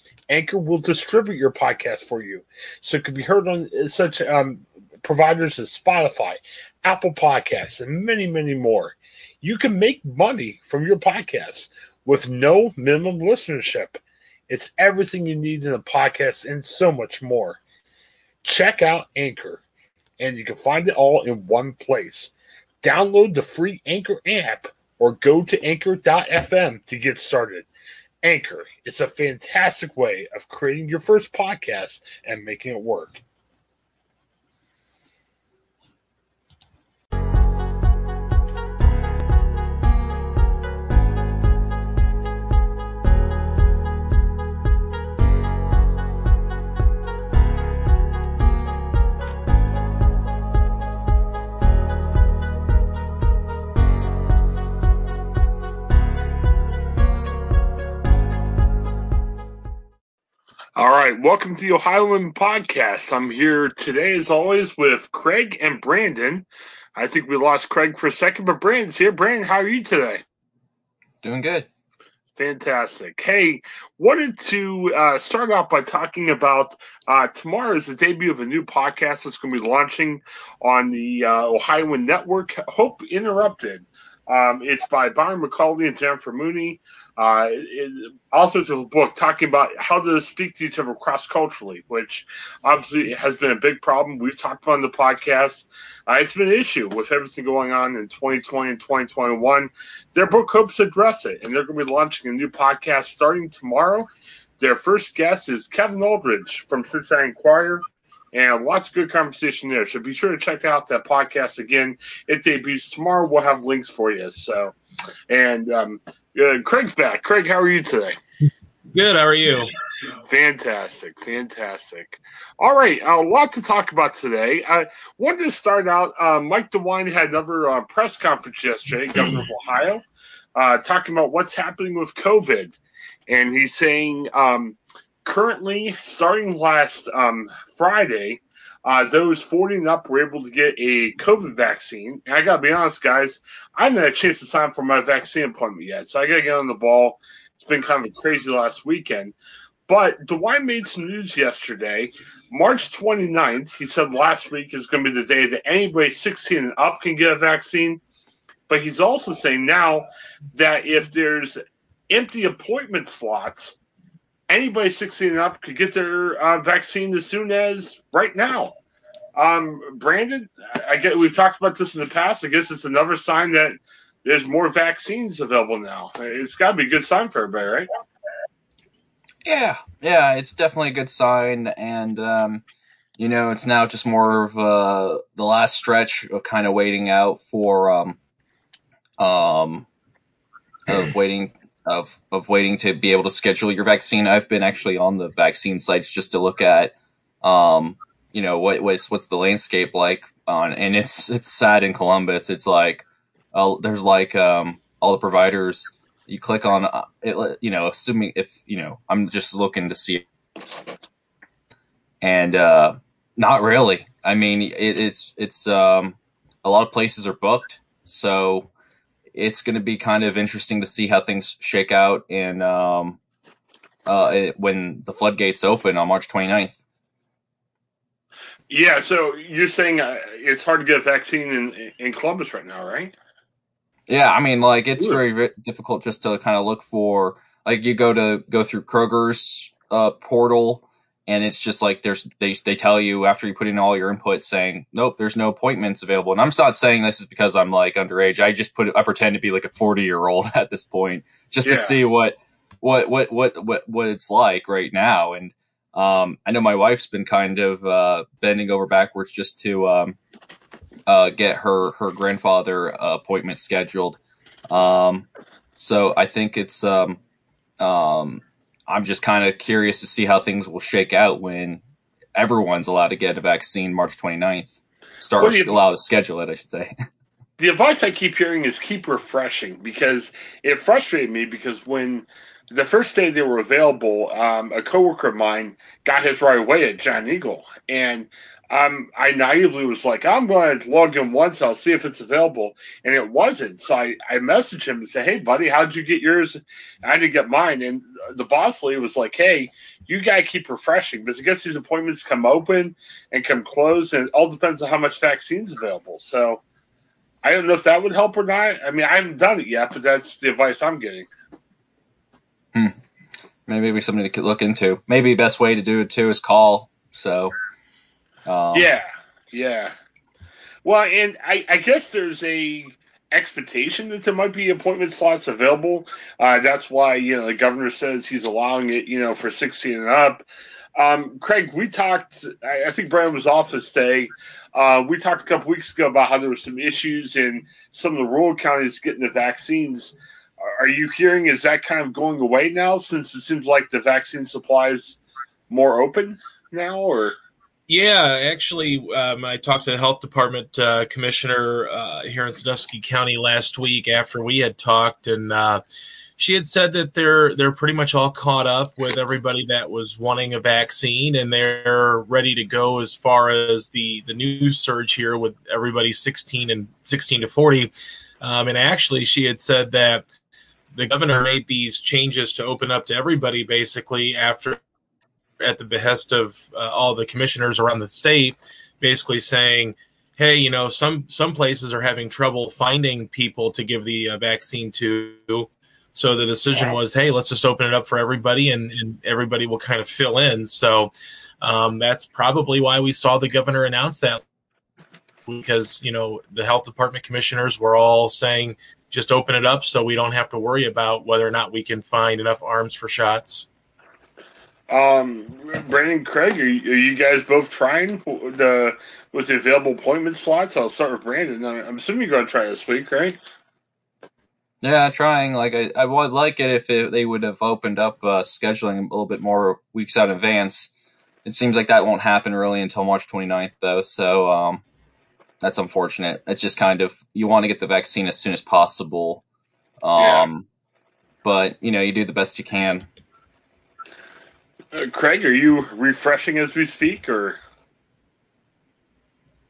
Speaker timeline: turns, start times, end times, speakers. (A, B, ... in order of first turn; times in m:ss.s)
0:00.3-0:17.6 A
0:18.4-0:19.6 A
0:20.2-0:27.7 A
0:28.2-0:33.2 A
1:00.8-1:10.2 A
1:11.2-1:11.7 B
1:12.4-1:44.1 A
1:44.6-1:54.7 A
1:55.3-1:58.1 A
1:58.9-1:59.7 C
2:00.2-2:10.0 A
2:10.6-2:12.8 A
2:13.3-2:29.3 A
2:29.9-2:38.0 A
2:38.7-2:41.6 A
2:42.1-2:43.8 A
2:44.5-2:48.7 A
2:49.4-2:57.9 A
2:59.4-3:02.6 B
3:03.2-3:08.2 B
3:09.2-3:09.9 B
3:10.9-3:30.2 B
3:32.2-3:38.7 B
3:39.3-3:43.2 B
3:44.1-3:46.8 B
3:48.7-3:53.1 A
3:54.1-4:20.2 B
4:11.6-4:12.0 A
4:21.1-4:24.2 B
4:24.7-4:27.2 B
4:27.8-4:31.8 B
4:32.4-4:36.9 B
4:35.4-4:35.8 A
4:37.6-5:06.6 A
5:07.4-5:11.3 A
5:13.7-5:17.6 B
5:18.5-5:18.9 B
5:18.7-5:19.9 A
5:20.8-5:30.4 A
5:31.0-5:47.4 A
5:47.9-5:55.8 C
5:56.4-6:10.2 C
6:10.9-6:14.8 C
6:15.6-6:34.4 C
6:35.5-6:43.7 C
6:44.9-6:53.4 A
6:54.8-7:00.9 B
7:01.4-7:04.8 B
7:05.6-7:09.4 B
7:10.0-7:10.7 B
7:10.2-7:10.5 A
7:11.4-7:13.1 B
7:14.9-7:17.6 A